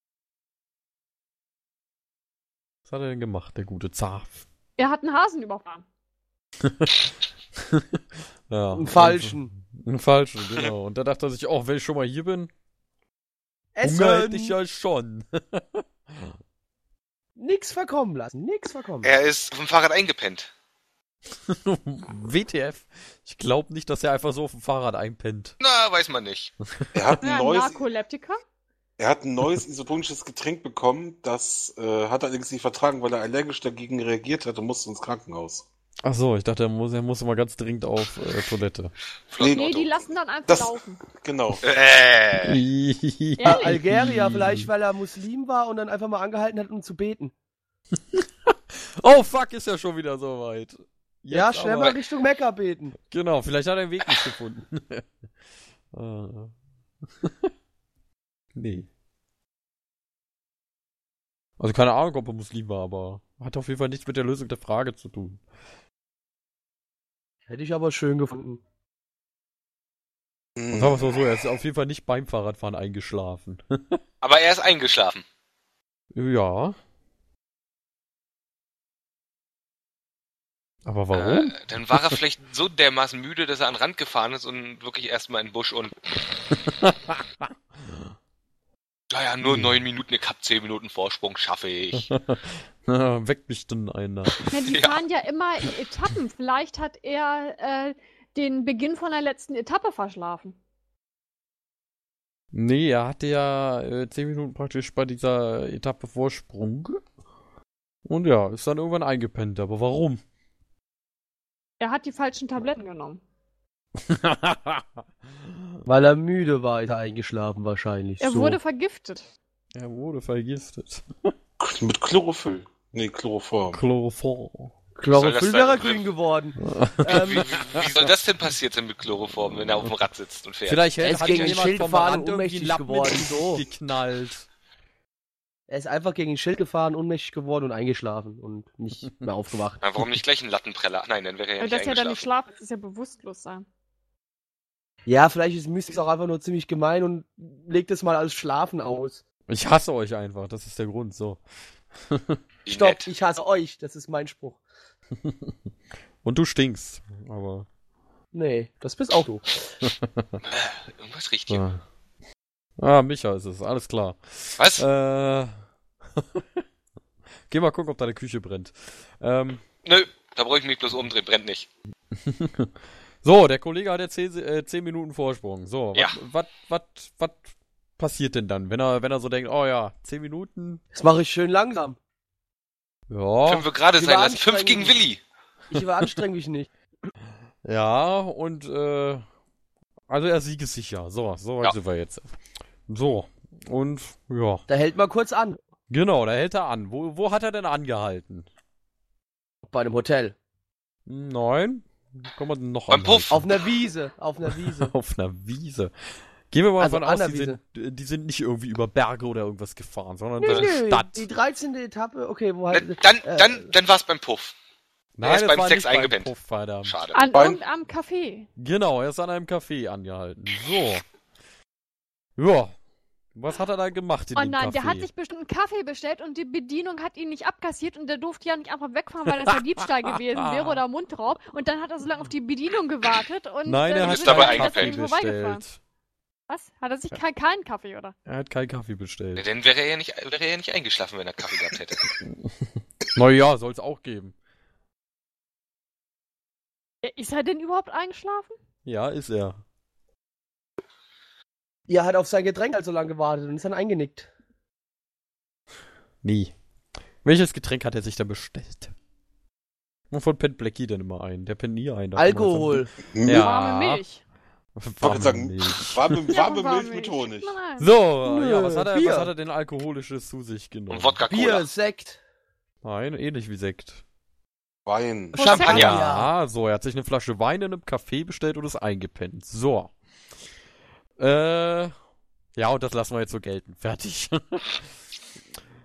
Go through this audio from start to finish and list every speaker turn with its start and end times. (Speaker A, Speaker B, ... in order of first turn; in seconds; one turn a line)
Speaker A: 2.9-4.4
Speaker B: 4.8-5.8
Speaker A: 6.6-12.5
Speaker C: 8.7-9.5
Speaker C: 13.8-14.6
Speaker A: 13.8-16.3
Speaker C: 17.4-19.1
Speaker D: 19.0-20.5
Speaker A: 21.5-25.6
Speaker D: 25.6-26.5
Speaker E: 26.9-27.8
Speaker B: 27.2-28.4
Speaker E: 29.0-35.6
Speaker A: 36.0-38.9
Speaker E: 39.3-41.6
Speaker D: 39.3-39.6
Speaker B: 39.5-41.0
Speaker D: 41.6-42.6
Speaker A: 42.4-44.7
Speaker B: 43.4-43.8
Speaker C: 43.5-47.3
Speaker A: 48.1-51.9
Speaker C: 51.3-52.9
Speaker A: 53.1-55.0
Speaker A: 55.9-56.5
Speaker A: 57.2-57.5
Speaker A: 58.5-58.9
Speaker A: 61.6-65.4
Speaker C: 67.5-68.6
Speaker E: 70.6-71.4
Speaker A: 70.7-74.0
Speaker D: 74.2-75.2
Speaker A: 76.1-76.8
Speaker A: 80.8-82.2
Speaker D: 81.1-86.0
Speaker A: 86.5-88.1
Speaker D: 89.1-92.1
Speaker A: 89.4-89.8
Speaker A: 92.0-94.5
Speaker B: 94.5-100.6
Speaker D: 94.7-95.0
Speaker A: 102.5-107.0
Speaker A: 108.1-110.2
Speaker B: 111.8-113.2
Speaker A: 114.0-114.9
Speaker A: 115.4-115.8
Speaker C: 115.9-118.6
Speaker B: 118.2-119.3
Speaker A: 119.7-121.3
Speaker E: 121.6-123.8
Speaker A: 123.7-124.7
Speaker C: 125.0-127.5
Speaker D: 125.1-126.1
Speaker A: 126.6-128.1
Speaker D: 127.0-131.6
Speaker A: 130.7-134.5
Speaker C: 131.0-133.6
Speaker C: 135.7-139.8
Speaker D: 139.8-142.2
Speaker B: 141.6-143.7
Speaker C: 145.1-149.2
Speaker A: 149.5-151.4
Speaker A: 152.1-152.4
Speaker D: 152.7-153.1
Speaker C: 152.7-154.6
Speaker A: 155.2-155.5
Speaker A: 156.2-157.7
Speaker C: 158.3-159.7
Speaker A: 159.8-160.4
Speaker D: 160.5-161.7
Speaker A: 161.5-161.8
Speaker A: 162.8-165.5
Speaker D: 164.6-164.8
Speaker A: 166.2-166.6
Speaker A: 167.5-169.6
Speaker D: 169.8-171.7
Speaker A: 172.2-172.7
Speaker A: 173.2-180.8
Speaker C: 180.9-182.0
Speaker A: 183.1-183.7
Speaker D: 183.5-185.2
Speaker C: 184.0-185.0
Speaker C: 185.7-186.7
Speaker A: 187.6-189.2
Speaker A: 190.1-192.3
Speaker A: 192.9-194.7
Speaker C: 194.7-195.6
Speaker A: 195.9-198.5
Speaker C: 199.6-200.4
Speaker A: 201.1-203.5
Speaker D: 202.9-203.3
Speaker C: 203.3-204.9
Speaker A: 204.8-205.9
Speaker A: 206.5-211.2
Speaker C: 206.8-207.6
Speaker C: 210.4-213.7
Speaker D: 212.7-214.5
Speaker A: 215.2-216.9
Speaker D: 215.2-216.3
Speaker D: 216.9-217.2
Speaker B: 217.1-218.5
Speaker E: 217.3-217.6
Speaker A: 218.6-221.0
Speaker A: 222.4-222.7
Speaker A: 223.3-225.1
Speaker B: 224.3-235.6
Speaker A: 229.3-229.6
Speaker A: 230.4-230.8
Speaker A: 233.7-235.8
Speaker D: 234.0-234.9
Speaker B: 236.5-238.2
Speaker A: 238.3-239.4
Speaker D: 239.4-242.1
Speaker A: 242.2-244.3
Speaker B: 247.0-248.6
Speaker A: 248.8-249.6
Speaker C: 251.9-254.3
Speaker A: 256.2-256.5
Speaker A: 257.2-258.9
Speaker A: 260.1-264.0
Speaker C: 262.2-262.9
Speaker E: 263.1-263.5
Speaker B: 263.3-264.2
Speaker A: 264.8-266.3
Speaker E: 265.0-267.6
Speaker B: 266.3-267.9
Speaker A: 267.8-271.2
Speaker C: 268.2-269.3
Speaker D: 270.9-271.7
Speaker C: 271.3-272.2
Speaker A: 272.8-274.0
Speaker E: 274.9-275.6
Speaker B: 275.3-275.9
Speaker C: 275.3-276.3
Speaker D: 275.6-276.1
Speaker A: 275.7-279.9
Speaker A: 281.2-281.9
Speaker A: 282.6-284.8